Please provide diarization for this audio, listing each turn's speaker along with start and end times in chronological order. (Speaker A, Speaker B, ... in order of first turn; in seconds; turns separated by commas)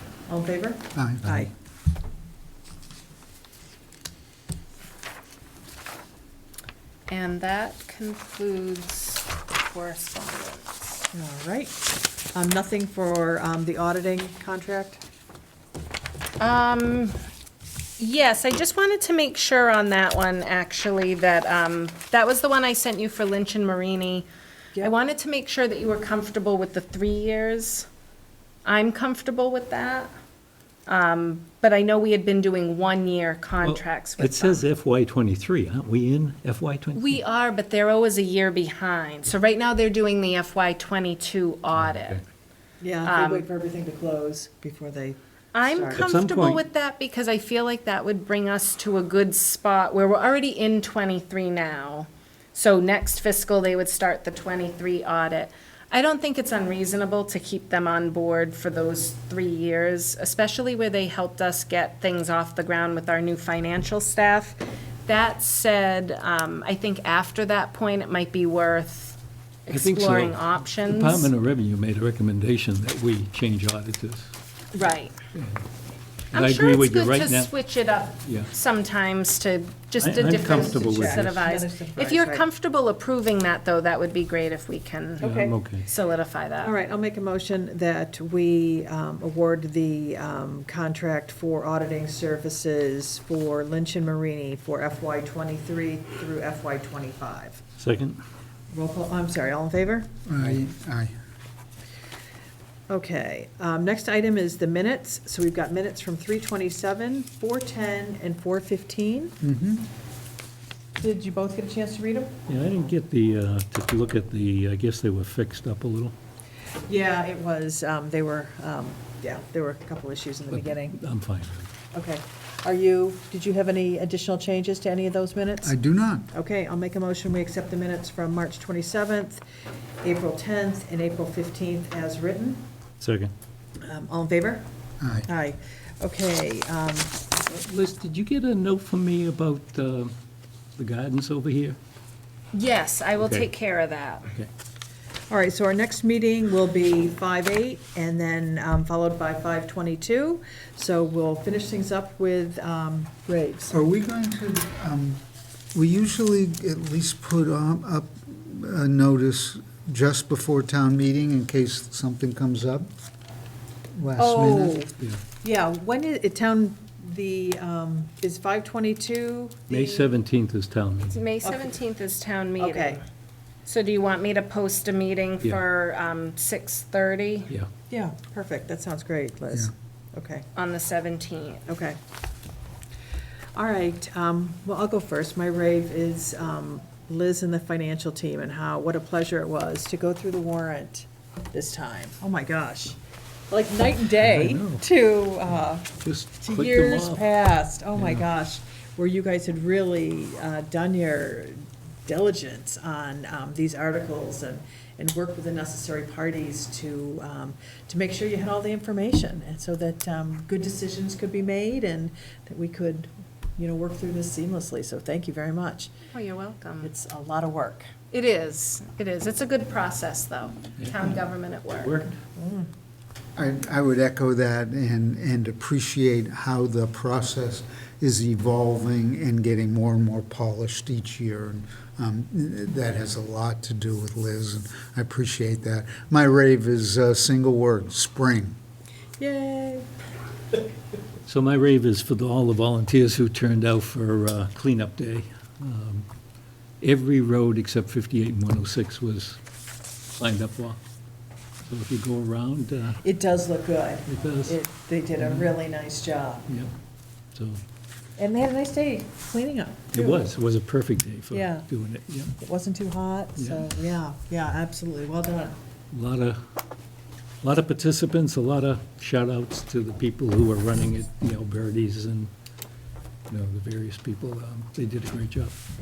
Speaker A: 0.3-1.5, Speaker B: 0.9-1.4, Speaker C: 7.1-11.1, Speaker A: 11.1-15.0, Speaker C: 16.4-17.2, Speaker C: 18.0-27.9, Speaker C: 28.6-30.1, Speaker C: 30.9-34.6, Speaker D: 33.6-37.2, Speaker C: 36.9-42.2, Speaker D: 41.8-42.2, Speaker A: 42.8-46.0, Speaker C: 43.0-43.5, Speaker C: 45.5-71.3, Speaker D: 45.9-46.6, Speaker D: 69.7-74.3, Speaker C: 74.7-75.2, Speaker D: 75.3-75.6, Speaker C: 76.3-86.7, Speaker D: 76.3-77.5, Speaker D: 78.2-78.5, Speaker D: 80.0-81.4, Speaker A: 80.6-82.5, Speaker A: 85.2-85.5, Speaker D: 85.2-85.9, Speaker A: 86.6-97.6, Speaker D: 97.8-98.2, Speaker A: 98.7-100.1, Speaker B: 100.2-101.1, Speaker A: 102.9-109.3, Speaker B: 109.4-109.9, Speaker A: 111.0-112.3, Speaker D: 112.5-116.1, Speaker A: 116.9-121.0, Speaker D: 120.5-121.7, Speaker A: 121.9-125.7, Speaker B: 125.6-126.3, Speaker A: 126.3-129.4, Speaker A: 130.0-132.6, Speaker D: 133.0-133.3, Speaker A: 133.8-134.7, Speaker B: 135.0-135.3, Speaker A: 135.3-137.2, Speaker D: 137.4-140.1, Speaker D: 140.8-141.8, Speaker C: 142.5-144.3, Speaker D: 143.2-143.5, Speaker A: 145.3-153.7, Speaker B: 153.7-155.2, Speaker B: 155.7-162.9, Speaker B: 163.9-164.8, Speaker A: 164.2-170.1, Speaker D: 169.7-171.2, Speaker C: 171.1-173.0, Speaker A: 171.4-171.8, Speaker A: 172.6-173.0, Speaker C: 173.7-177.5, Speaker A: 177.9-180.5, Speaker C: 180.5-181.7, Speaker A: 181.7-182.0, Speaker A: 183.5-193.0, Speaker A: 193.5-216.0, Speaker D: 194.1-194.9, Speaker D: 196.0-198.3, Speaker C: 216.1-216.9, Speaker A: 216.8-218.0, Speaker C: 218.0-222.1, Speaker D: 220.8-221.2, Speaker D: 221.8-222.2, Speaker A: 222.3-222.7, Speaker B: 223.3-238.6, Speaker A: 239.2-239.9, Speaker D: 241.2-246.1, Speaker D: 246.8-249.4, Speaker D: 250.2-250.8, Speaker D: 251.6-253.0, Speaker A: 253.0-256.4, Speaker D: 254.1-254.6, Speaker D: 255.2-255.6, Speaker D: 256.5-256.7, Speaker D: 257.3-257.6, Speaker A: 258.2-260.2, Speaker D: 259.9-262.4, Speaker A: 261.3-261.7, Speaker A: 262.4-265.6, Speaker D: 263.4-263.7, Speaker D: 265.9-266.4, Speaker D: 267.4-272.3, Speaker D: 273.3-275.6